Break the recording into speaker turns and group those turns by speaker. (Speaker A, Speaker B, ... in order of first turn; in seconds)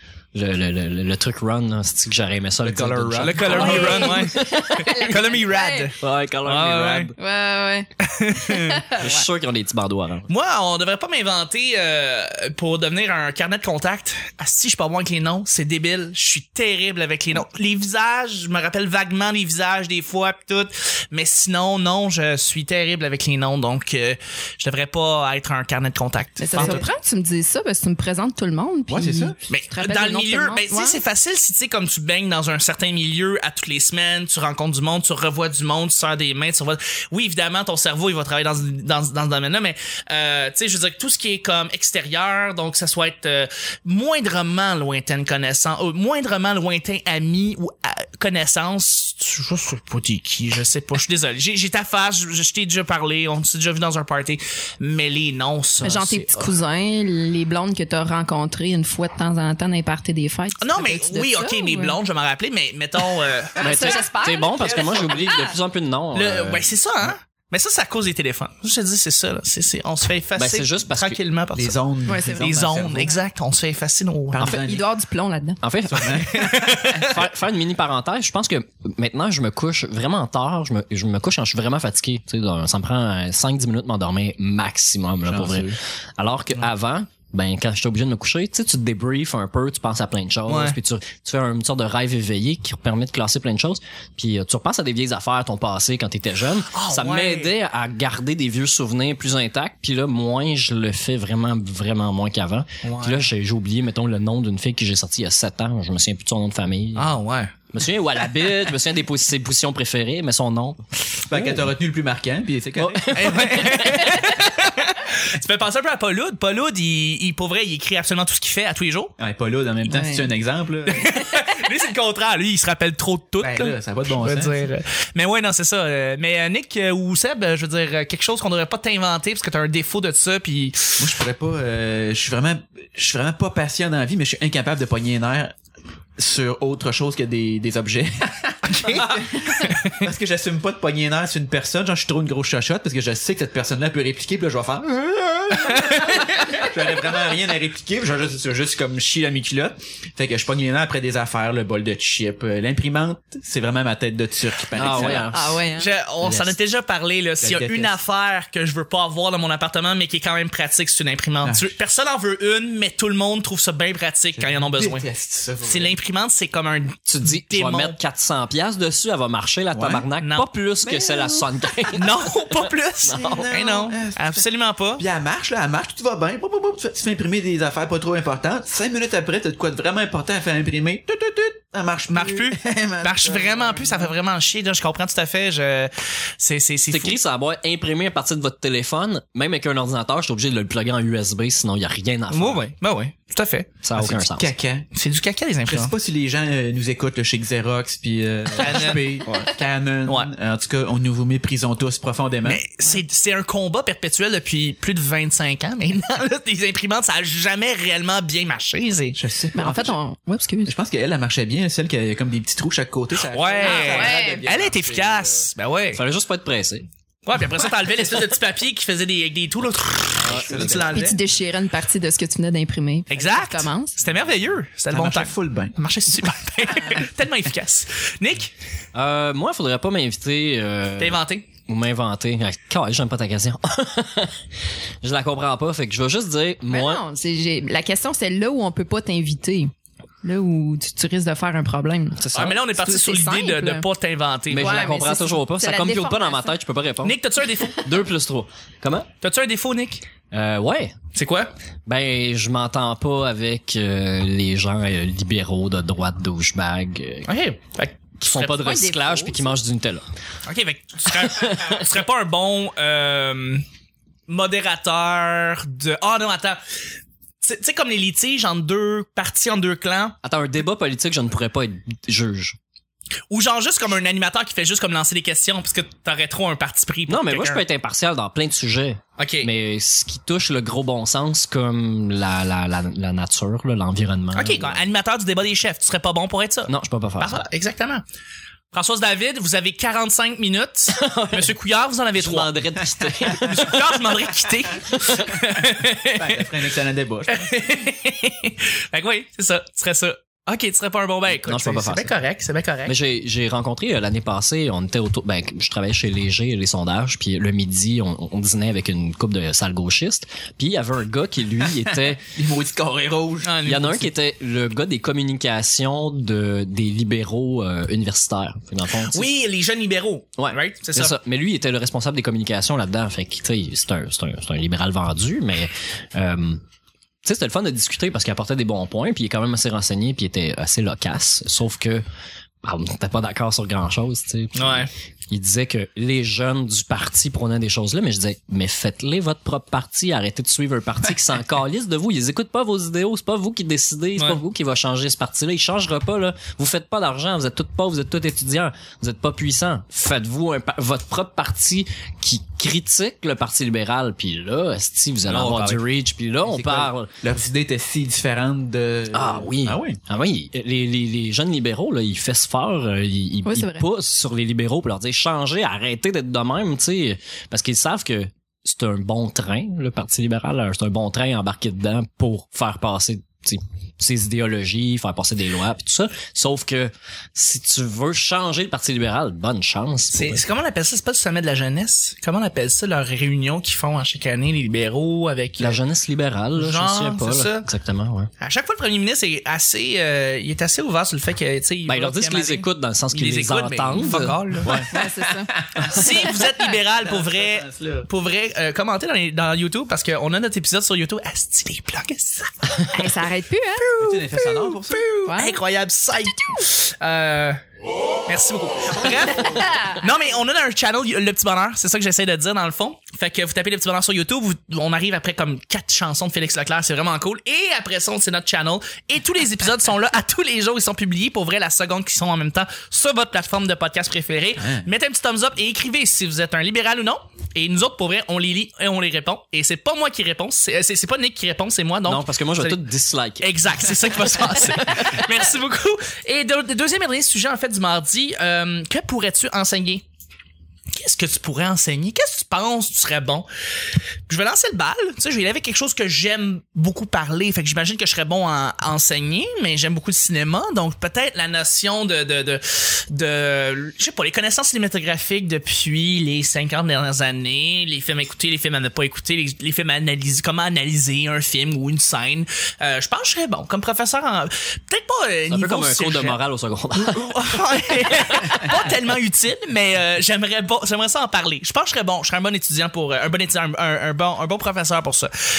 Speaker A: 0.3-4.9, 6.0-7.1, 8.9-10.3, 56.1-56.5, 63.6-66.7, 70.3-71.2, 75.6-76.2, 76.9-107.1, 107.7-111.7, 112.8-114.2, 154.7-155.7, 167.1-173.5, 186.9-192.7, 193.8-194.5, 215.9-216.9, 220.2-220.8, 228.9-234.4, 235.0-237.0, 242.2-242.7, 244.5-247.2, 247.8-249.1, 250.3-250.9, 251.9-257.3, 258.2-260.1, 261.2-261.8, 270.2-272.6, 277.1-284.8, 286.7-287.4, 290.9-291.5, 292.1-294.0, 294.9-295.2, 301.3-302.1, 302.9-312.2, 313.6-319.3, 320.4-326.6, 327.2-332.0, 332.6-357.1, 359.1-380.4, 385.6-388.3, 391.9-394.4, 432.1-435.2, 465.5-467.4, 468.2-468.6
Speaker B: 2.6-4.0, 26.5-26.8, 28.9-29.4, 64.6-65.4, 71.5-73.2, 74.3-74.9, 75.9-77.2, 85.2-85.8, 111.2-113.8, 119.2-121.1, 123.4-124.7, 131.0-135.5, 136.2-155.3, 156.2-156.6, 157.4-158.0, 161.4-161.7, 164.4-166.0, 169.7-170.1, 173.1-184.2, 194.0-194.9, 195.7-202.6, 209.2-210.0, 210.7-215.5, 220.3-221.0, 224.9-225.8, 296.1-297.5, 312.3-313.6, 356.4-360.0, 394.6-394.9, 395.6-396.4, 397.0-398.1, 404.0-405.1, 424.6-424.9
Speaker C: 3.2-7.1, 8.0-8.8, 10.3-26.9, 29.5-56.2, 60.6-64.0, 66.1-74.5, 76.3-77.0, 90.5-90.8, 96.7-97.5, 102.8-103.3, 107.0-107.5, 113.1-119.1, 120.9-131.0, 138.6-140.0, 145.7-146.2, 154.9-165.1, 165.7-168.0, 170.2-170.5, 171.9-175.0, 182.1-187.2, 192.3-193.7, 194.9-195.9, 198.6-199.1, 202.4-209.2, 213.3-216.0, 217.3-221.2, 223.1-228.5, 231.0-231.5, 242.3-244.9, 247.0-247.9, 249.2-250.1, 251.1-251.5, 257.3-258.6, 260.5-263.6, 264.3-266.6, 267.4-270.2, 273.3-277.6, 279.2-279.5, 284.3-288.0, 288.7-292.5, 293.4-296.4, 297.3-302.9, 313.4-314.1, 319.0-321.1, 334.6-334.9, 344.2-344.4, 355.3-355.8, 380.1-385.8, 386.6-387.7, 388.4-394.8, 395.9-403.1, 403.8-407.6, 408.3-432.8, 433.4-440.0, 440.9-443.5, 444.3-466.4, 466.9-475.3
Speaker D: 3.5-5.9, 7.2-7.9, 8.5-9.2, 26.4-31.0, 55.8-62.0, 63.6-65.5, 72.0-72.4, 74.4-75.6, 119.9-120.3, 155.3-155.9, 209.6-210.7, 213.6-214.4, 220.8-224.0, 236.7-239.7, 240.2-242.2, 242.7-243.9, 244.5-246.6, 258.6-259.6, 363.4-363.9, 394.9-396.4, 402.9-404.3, 405.2-405.6, 409.4-409.9